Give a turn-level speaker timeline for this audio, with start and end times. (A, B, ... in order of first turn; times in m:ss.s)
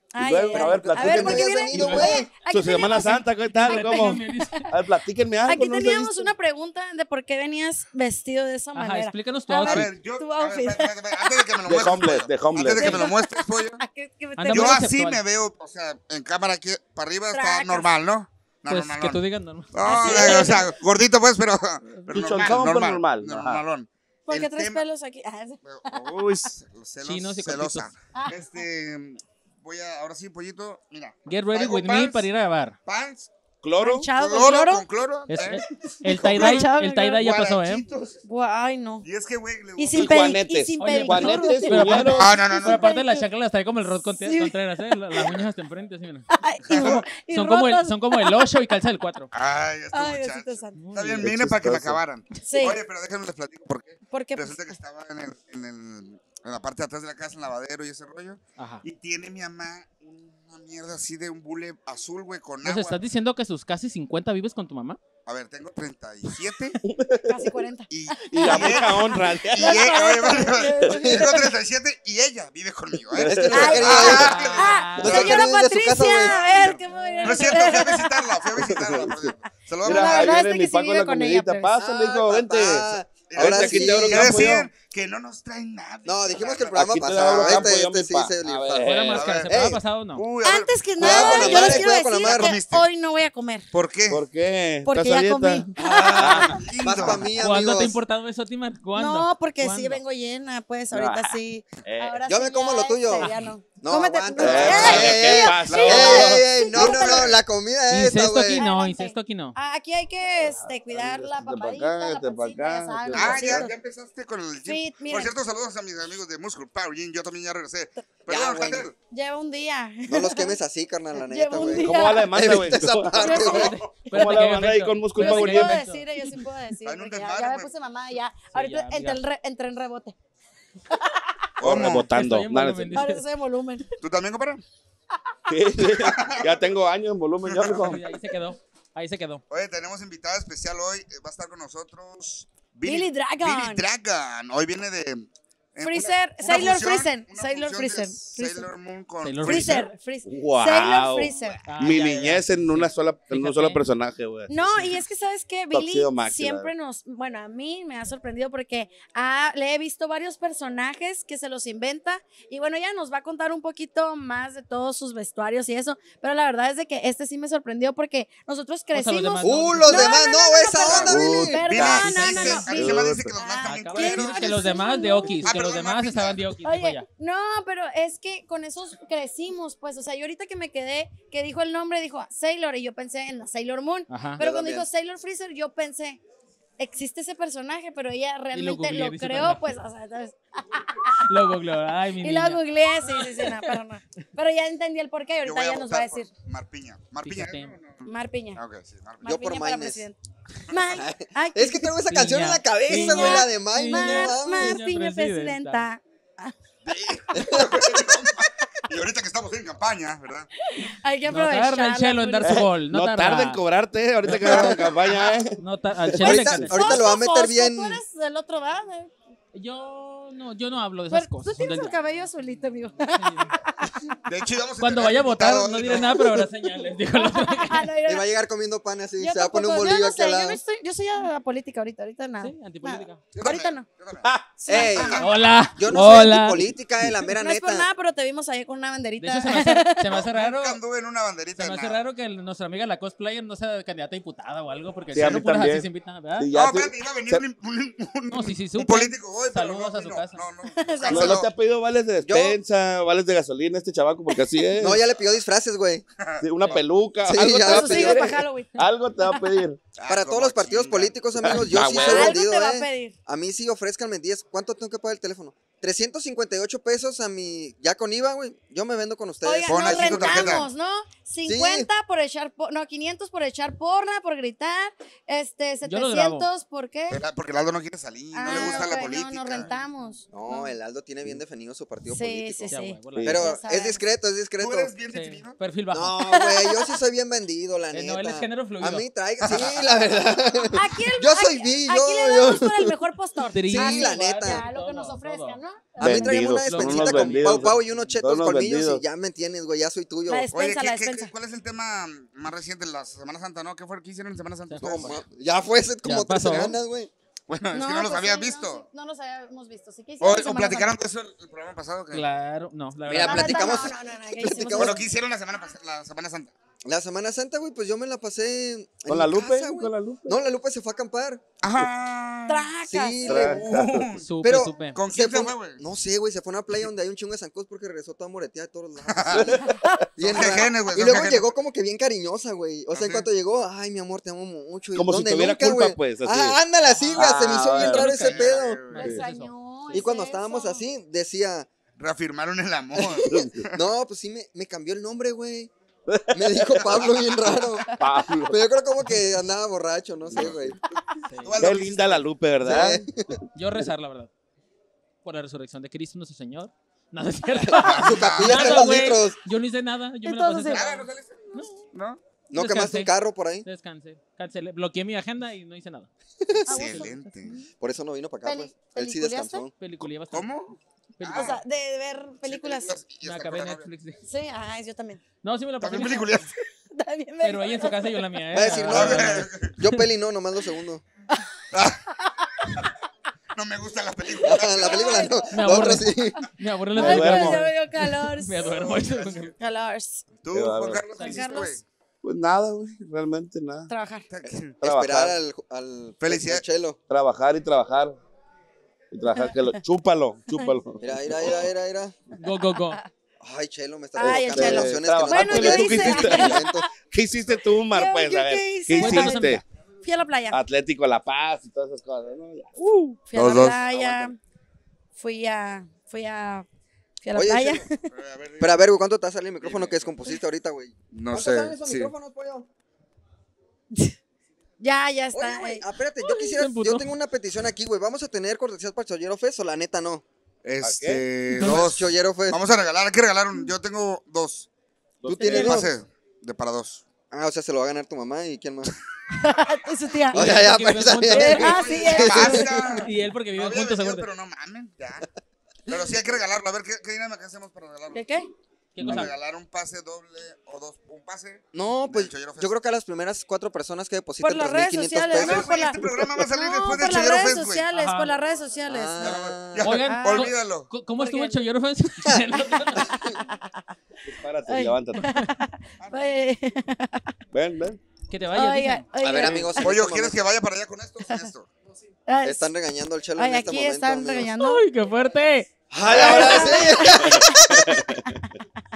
0:00.1-0:04.7 A
0:00.2-0:06.3 B
0:00.5-0:02.3 C
0:03.0-0:04.6 D
0:05.4-0:11.6 A
0:08.7-0:09.9 D
0:09.6-0:13.8 E
0:11.7-0:13.0 B
0:12.7-0:14.9 A
0:14.4-0:15.2 D
0:14.5-0:19.2 E
0:17.3-0:17.9 A
0:18.7-0:20.6 D
0:19.7-0:24.8 E
0:19.8-0:20.7 A
0:22.1-0:23.6 B
0:24.3-0:26.5 A
0:25.6-0:32.3 E
0:27.0-0:27.9 D
0:28.1-0:28.6 A
0:31.3-0:32.8 D
0:32.9-0:33.3 E
0:33.6-0:34.1 B
0:33.8-0:34.9 A
0:34.1-0:38.2 E
0:35.3-0:37.9 D
0:36.1-0:37.2 A
0:38.2-0:39.1 A
0:39.0-0:40.4 E
0:39.8-0:43.3 A
0:39.9-0:42.3 B
0:40.8-0:49.3 D
0:42.2-0:42.9 E
0:44.0-0:44.5 A
0:45.2-0:45.5 E
0:46.4-0:48.5 A
0:46.7-0:47.0 E
0:49.3-1:03.0 E
0:49.9-0:50.9 A
0:50.8-0:51.3 D
0:51.0-0:52.0 B
0:52.4-0:52.8 A
0:54.1-0:54.8 A
0:58.6-0:58.8 D
1:02.6-1:05.0 D
1:05.3-1:06.8 E
1:06.8-1:07.4 B
1:07.2-1:11.6 A
1:07.9-1:15.5 E
1:08.3-1:10.1 B
1:13.1-1:13.8 B
1:13.2-1:16.7 C
1:13.4-1:18.6 A
1:13.7-1:15.5 D
1:16.3-1:20.4 E
1:17.0-1:17.6 D
1:18.6-1:19.3 B
1:19.8-1:24.7 B
1:19.8-1:22.2 A
1:22.2-1:24.5 C
1:23.3-1:27.8 E
1:26.0-1:29.8 C
1:26.8-1:29.4 B
1:28.8-1:30.3 D
1:29.1-1:29.5 E
1:30.2-1:32.9 E
1:30.4-1:33.7 A
1:31.0-1:32.6 C
1:31.0-1:31.7 B
1:33.7-1:34.2 E
1:34.1-1:36.6 B
1:34.8-1:37.0 A
1:35.8-1:38.0 C
1:36.6-1:37.3 E
1:37.3-1:40.0 D
1:38.9-1:47.4 A
1:40.9-1:42.2 B
1:42.2-1:48.6 C
1:44.4-1:47.4 B
1:44.7-1:46.3 E
1:47.9-1:49.6 D
1:48.5-1:53.7 A
1:50.4-1:53.7 B
1:53.1-1:59.0 E
1:54.7-1:55.4 A
1:58.3-1:58.9 C
1:59.1-2:00.6 A
2:00.1-2:03.7 C
2:01.2-2:02.6 A
2:01.6-2:03.4 B
2:03.2-2:03.6 A
2:03.3-2:03.8 E
2:03.4-2:06.4 D
2:04.1-2:05.9 B
2:05.1-2:10.2 A
2:06.8-2:07.7 E
2:08.5-2:09.2 D
2:10.9-2:11.6 A
2:11.6-2:12.1 E
2:11.6-2:13.1 B
2:12.1-2:13.2 D
2:12.9-2:13.9 A
2:14.0-2:14.6 E
2:15.5-2:18.0 B
2:15.8-2:16.6 E
2:17.4-2:18.0 E
2:17.7-2:19.4 D
2:19.5-2:29.9 E
2:22.8-2:23.9 A
2:25.8-2:28.7 A
2:29.2-2:29.9 D
2:29.4-2:31.6 A
2:30.3-2:35.1 B
2:31.7-2:33.8 D
2:31.9-2:32.4 E
2:34.5-2:55.5 A
2:35.7-2:36.7 B
2:48.9-2:50.2 D
2:49.4-2:51.7 C
2:50.8-2:53.4 B
2:50.8-2:51.1 E
2:51.7-2:54.5 E
2:52.0-2:52.9 D
2:53.6-2:57.1 D
2:55.4-2:56.4 E
2:56.6-3:06.2 A
3:04.1-3:04.4 D
3:04.4-3:04.9 B
3:06.8-3:11.5 A
3:08.5-3:09.7 D
3:11.3-3:13.8 D
3:12.2-3:16.3 A
3:15.4-3:19.3 E
3:17.2-3:17.8 D
3:18.0-3:18.6 A
3:19.2-3:20.2 A
3:19.2-3:20.0 C
3:20.7-3:22.0 A
3:21.0-3:24.8 C
3:22.1-3:25.9 D
3:22.9-3:26.5 A
3:26.8-3:30.5 E
3:27.4-3:27.9 C
3:27.6-3:28.0 A
3:30.6-3:32.6 A
3:31.3-3:33.6 D
3:32.4-3:36.8 B
3:34.3-3:34.5 D
3:34.4-3:34.9 C
3:35.6-3:37.0 D
3:36.2-3:38.0 C
3:36.7-3:39.1 A
3:39.5-3:42.2 D
3:41.1-3:43.9 A
3:43.1-3:43.5 D
3:44.3-3:46.4 E
3:44.8-3:47.9 D
3:47.2-3:48.3 A
3:48.0-3:50.6 C
3:49.2-3:53.9 A
3:52.4-3:53.2 D
3:53.3-3:55.3 E
3:54.2-3:54.6 B
3:54.6-3:55.3 A
3:54.7-3:57.9 C
3:55.2-3:56.7 D
3:57.3-4:00.1 A
3:59.2-4:00.8 D
4:00.1-4:02.1 E
4:01.6-4:06.5 D
4:05.1-4:05.9 B
4:06.4-4:07.5 B
4:06.6-4:11.5 E
4:08.3-4:10.4 D
4:10.7-4:11.4 A
4:11.1-4:15.0 B
4:12.2-4:12.6 C
4:14.8-4:16.0 C
4:16.2-4:16.8 E
4:16.4-4:19.8 B
4:17.3-4:18.3 C
4:17.4-4:19.6 A
4:20.0-4:22.4 E
4:20.1-4:30.7 C
4:21.4-4:22.4 B
4:21.9-4:23.2 A
4:29.4-4:37.2 A
4:29.7-4:30.7 E
4:31.4-4:31.9 C
4:35.8-4:36.5 D
4:37.1-4:39.7 E
4:38.3-4:40.7 A
4:38.5-4:38.9 D
4:38.5-4:38.9 C
4:40.3-4:42.7 C
4:42.0-4:44.0 A
4:42.7-4:43.6 D
4:43.1-4:43.5 B
4:43.2-4:44.9 C
4:44.6-4:45.6 E
4:45.1-4:46.3 D
4:45.9-4:52.9 C
4:46.3-4:46.9 A
4:47.9-4:49.1 D
4:49.4-4:49.8 E
4:50.7-4:56.4 A
4:53.5-4:57.8 D
4:53.6-4:54.7 C
4:56.0-4:59.0 B
4:56.0-5:00.5 C
5:00.3-5:01.4 A
5:00.5-5:05.2 E
5:04.7-5:05.2 D
5:04.8-5:07.1 C
5:06.0-5:06.8 D
5:07.5-5:08.8 E
5:07.7-5:11.0 A
5:10.2-5:12.3 E
5:12.1-5:13.9 D
5:13.1-5:15.0 C
5:13.2-5:15.1 A
5:14.7-5:16.5 E
5:16.8-5:21.4 C
5:19.1-5:20.3 B
5:21.6-5:22.7 E
5:22.5-5:23.6 A
5:22.8-5:23.7 C
5:23.3-5:24.1 B
5:23.3-5:25.8 E
5:24.1-5:25.0 D
5:24.4-5:38.8 C
5:29.1-5:29.5 E
5:29.3-5:30.1 B
5:29.8-5:30.6 A
5:30.2-5:31.5 E
5:32.9-5:33.3 E
5:35.0-5:36.6 B
5:37.2-5:38.1 B
5:37.5-5:40.1 D
5:38.1-5:39.1 E
5:39.0-5:39.2 B
5:39.0-5:40.8 A
5:39.9-5:41.7 C
5:42.0-5:43.7 E
5:43.0-5:45.7 C
5:46.1-5:48.6 B
5:46.3-5:47.9 C
5:48.5-5:50.8 C
5:50.3-5:50.7 B
5:51.3-5:51.6 D
5:51.4-5:52.3 E
5:51.6-5:53.1 B
5:52.6-5:53.4 C
5:53.6-5:54.3 D
5:55.2-6:01.7 D
5:57.7-5:59.0 E
5:57.8-5:59.4 C
6:00.2-6:01.0 A
6:00.7-6:02.2 E
6:02.5-6:03.1 D
6:02.5-6:03.7 C
6:03.6-6:06.1 D
6:06.6-6:07.6 E
6:06.7-6:07.7 A
6:07.8-6:09.7 C
6:08.4-6:09.7 A
6:09.8-6:10.5 D
6:10.3-6:11.6 E
6:11.2-6:11.6 D
6:11.3-6:13.0 A
6:12.4-6:13.9 E
6:13.2-6:14.2 D
6:14.2-6:15.2 A
6:15.4-6:16.4 D
6:15.8-6:16.6 E
6:16.9-6:18.2 A
6:17.4-6:19.6 D
6:18.5-6:21.0 C
6:18.9-6:19.8 E
6:21.7-6:22.0 E
6:23.6-6:25.3 E
6:24.4-6:26.4 C
6:25.0-6:25.3 A
6:25.5-6:29.5 D
6:27.0-6:29.0 A
6:27.0-6:27.7 B
6:29.0-6:29.4 E
6:29.6-6:30.3 A
6:30.4-6:31.8 E
6:30.5-6:31.1 B
6:31.2-6:31.6 D
6:31.2-6:31.8 A
6:32.2-6:33.9 B
6:33.9-6:34.3 A
6:34.3-6:34.8 E
6:34.7-6:35.4 B
6:34.8-6:37.0 C
6:36.2-6:36.6 E
6:37.1-6:38.2 B
6:39.1-6:41.6 B
6:39.3-6:39.8 A
6:40.5-6:40.8 A
6:41.0-6:42.2 C
6:42.4-6:43.0 D
6:43.4-6:46.9 C
6:44.2-6:46.9 A
6:44.2-6:49.6 B
6:47.6-6:50.6 A
6:48.9-6:49.6 D
6:50.5-6:52.8 B
6:52.8-6:54.4 A
6:53.4-6:53.8 E
6:53.4-6:54.3 B
6:55.2-6:56.7 A
6:57.2-6:58.1 A
6:57.3-6:57.8 C
6:58.1-6:58.8 E
6:58.6-7:02.7 C
6:59.6-7:00.1 E
7:01.1-7:02.1 E
7:04.8-7:06.5 A
7:05.3-7:10.2 C
7:06.5-7:07.1 D
7:10.6-7:14.7 E
7:10.8-7:11.3 B
7:11.5-7:12.6 C
7:15.2-7:15.8 B
7:15.4-7:15.9 C
7:15.4-7:17.0 E
7:17.3-7:18.9 C
7:19.4-7:20.7 A
7:20.3-7:23.0 C
7:20.3-7:24.3 D
7:21.3-7:22.6 A
7:21.4-7:25.2 E
7:25.9-7:28.3 E
7:28.1-7:28.5 A
7:29.0-7:29.4 D
7:29.0-7:32.7 E
7:31.7-7:35.8 C
7:34.4-7:40.5 A
7:35.3-7:37.9 E
7:37.9-7:38.4 D
7:38.9-7:40.1 C
7:39.2-7:40.9 E
7:39.8-7:43.2 D
7:41.2-7:41.6 A
7:43.3-7:43.8 A
7:44.3-7:45.3 B
7:44.7-7:47.3 A
7:46.0-7:46.3 E
7:47.5-7:48.0 B
7:48.3-7:49.1 D
7:48.5-7:50.0 A
7:49.2-7:50.4 C
7:49.4-7:49.7 B
7:49.8-7:51.7 E
7:52.3-7:52.7 A
7:52.4-7:54.5 C
7:53.4-7:54.8 A
7:54.6-7:55.7 D
7:55.9-7:58.1 C
7:56.0-7:57.7 A